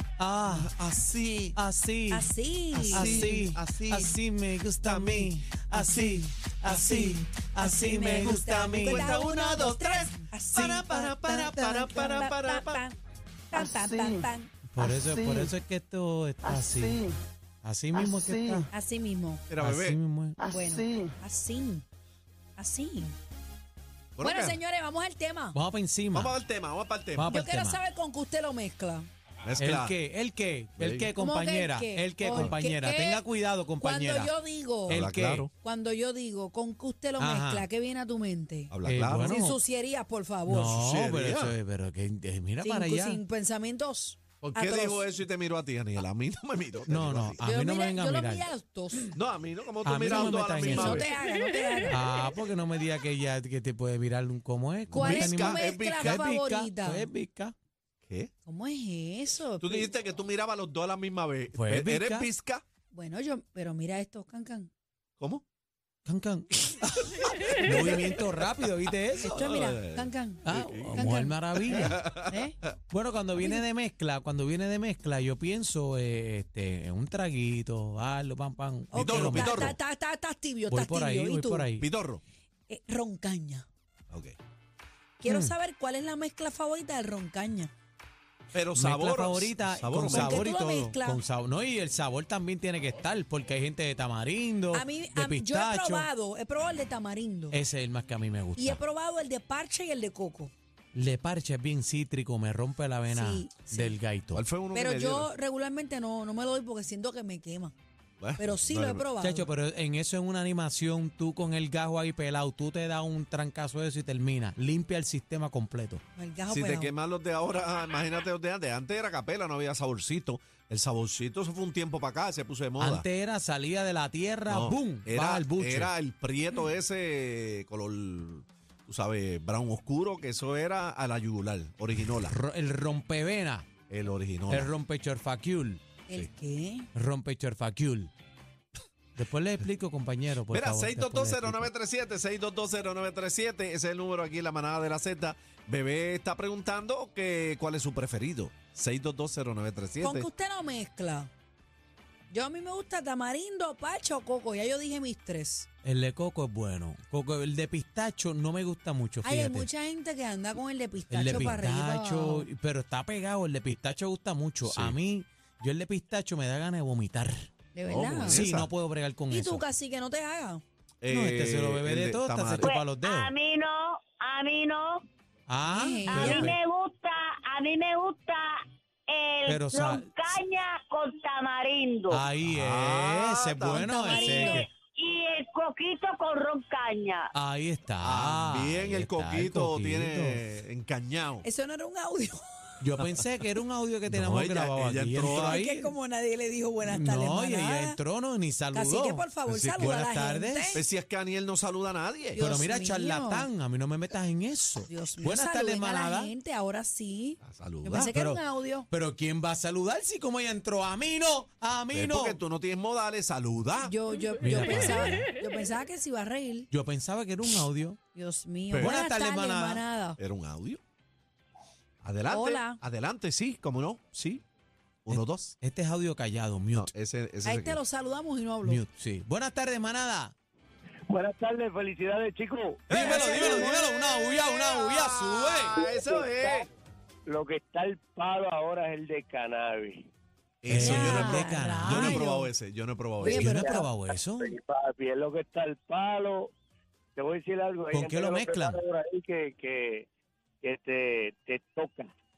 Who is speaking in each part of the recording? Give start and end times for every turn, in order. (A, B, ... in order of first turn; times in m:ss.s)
0:00.2-0:00.8 A
0:00.5-0:01.6 B
0:01.6-0:02.3 A
0:02.1-0:03.4 C
0:02.7-0:04.1 B
0:02.9-0:12.1 A
0:04.8-0:05.4 B
0:07.6-0:10.8 C
0:08.9-0:09.2 B
0:10.5-0:12.8 B
0:11.9-0:13.0 C
0:13.5-0:14.5 C
0:13.5-0:15.5 D
0:14.7-0:17.0 A
0:16.4-0:17.2 D
0:17.6-0:18.7 A
0:17.9-0:18.7 D
0:18.7-0:19.4 C
0:19.5-0:20.0 B
0:19.6-0:20.4 A
0:20.4-0:21.2 D
0:20.5-0:21.8 C
0:22.6-0:23.1 C
0:24.2-0:24.6 B
0:24.2-0:25.6 C
0:25.5-0:26.4 A
0:26.1-0:27.4 B
0:27.2-0:27.8 A
0:27.3-0:29.1 C
0:29.5-0:30.0 B
0:29.6-0:34.3 A
0:30.8-0:31.1 B
0:31.2-0:33.2 C
0:33.8-0:35.0 C
0:34.9-0:35.5 A
0:34.9-0:35.5 B
0:35.6-0:40.9 C
0:37.2-0:37.7 A
0:38.7-0:39.3 B
0:38.8-0:39.6 A
0:40.5-0:43.2 A
0:40.8-0:41.6 B
0:42.6-0:45.0 C
0:44.4-0:47.4 B
0:46.9-0:48.5 A
0:47.4-0:49.1 C
0:49.1-0:51.1 B
0:49.8-0:51.1 A
0:50.0-0:52.0 C
0:51.9-0:57.5 A
0:54.9-0:56.2 B
0:55.0-0:57.1 C
0:58.1-0:58.3 B
0:58.4-0:59.9 C
0:59.6-1:02.6 B
1:01.5-1:02.3 A
1:02.9-1:04.7 C
1:05.2-1:05.4 B
1:06.1-1:07.0 A
1:07.6-1:09.3 A
1:09.2-1:11.1 B
1:09.3-1:12.6 C
1:10.5-1:12.0 A
1:11.7-1:12.4 B
1:12.9-1:19.8 A
1:13.4-1:13.6 C
1:18.9-1:21.7 C
1:18.9-1:19.8 B
1:20.7-1:21.8 A
1:21.8-1:22.2 B
1:22.7-1:23.7 C
1:25.2-1:27.7 C
1:25.3-1:25.6 A
1:28.5-1:30.5 B
1:28.7-1:36.1 A
1:30.1-1:31.2 C
1:34.7-1:37.6 C
1:37.5-1:38.8 A
1:38.6-1:40.5 C
1:40.9-1:44.4 A
1:43.1-1:44.0 C
1:44.3-1:45.3 B
1:44.7-1:47.7 C
1:48.2-1:49.1 B
1:48.4-1:49.5 C
1:49.2-1:56.0 A
1:56.2-1:56.9 C
1:56.5-2:03.1 B
2:02.8-2:05.9 A
2:04.5-2:12.4 B
2:12.0-2:13.7 A
2:13.9-2:14.7 B
2:14.5-2:15.8 A
2:16.1-2:16.9 C
2:17.0-2:18.1 A
2:19.2-2:21.7 A
2:20.5-2:30.3 B
2:30.0-2:31.3 C
2:32.3-2:35.7 C
2:35.8-2:39.7 A
2:39.2-2:42.5 C
2:41.1-2:47.5 A
2:44.6-2:45.0 B
2:47.7-2:48.4 C
2:47.9-2:48.7 B
2:48.3-2:49.6 A
2:49.3-2:50.6 C
2:51.0-2:52.7 B
2:51.1-2:53.3 A
2:52.6-2:55.0 E
2:55.5-2:56.6 A
2:55.6-2:56.6 C
2:56.1-3:02.3 E
2:59.5-3:00.3 A
3:02.1-3:04.7 A
3:02.4-3:03.9 B
3:03.7-3:04.7 C
3:04.1-3:07.3 E
3:07.4-3:10.4 A
3:08.0-3:11.4 B
3:11.4-3:12.8 C
3:12.8-3:15.9 A
3:14.1-3:15.6 B
3:15.3-3:18.0 C
3:16.8-3:20.8 A
3:18.7-3:20.8 C
3:19.5-3:19.9 B
3:20.7-3:22.4 B
3:22.4-3:23.5 C
3:22.4-3:26.3 A
3:24.9-3:28.9 C
3:27.4-3:28.1 B
3:28.1-3:32.4 A
3:31.9-3:33.9 B
3:33.8-3:36.7 C
3:34.4-3:35.3 A
3:36.7-3:38.0 A
3:38.1-3:40.2 C
3:38.7-3:39.0 B
3:38.8-3:39.8 A
3:40.2-3:40.8 B
3:42.0-3:44.4 B
3:42.3-3:42.8 C
3:45.1-3:45.6 B
3:45.1-3:46.9 A
3:46.7-3:47.8 B
3:47.4-3:48.8 C
3:48.6-3:50.3 A
3:51.1-3:52.8 D
3:52.9-3:55.9 A
3:52.9-3:56.7 B
3:52.9-3:53.8 C
3:56.0-3:56.4 D
3:57.3-4:00.1 D
4:00.6-4:03.7 B
4:00.7-4:02.2 A
4:00.7-4:02.5 C
4:03.2-4:03.9 C
4:03.3-4:04.6 A
4:04.1-4:06.5 D
4:07.2-4:10.1 D
4:07.9-4:08.8 A
4:10.6-4:12.1 D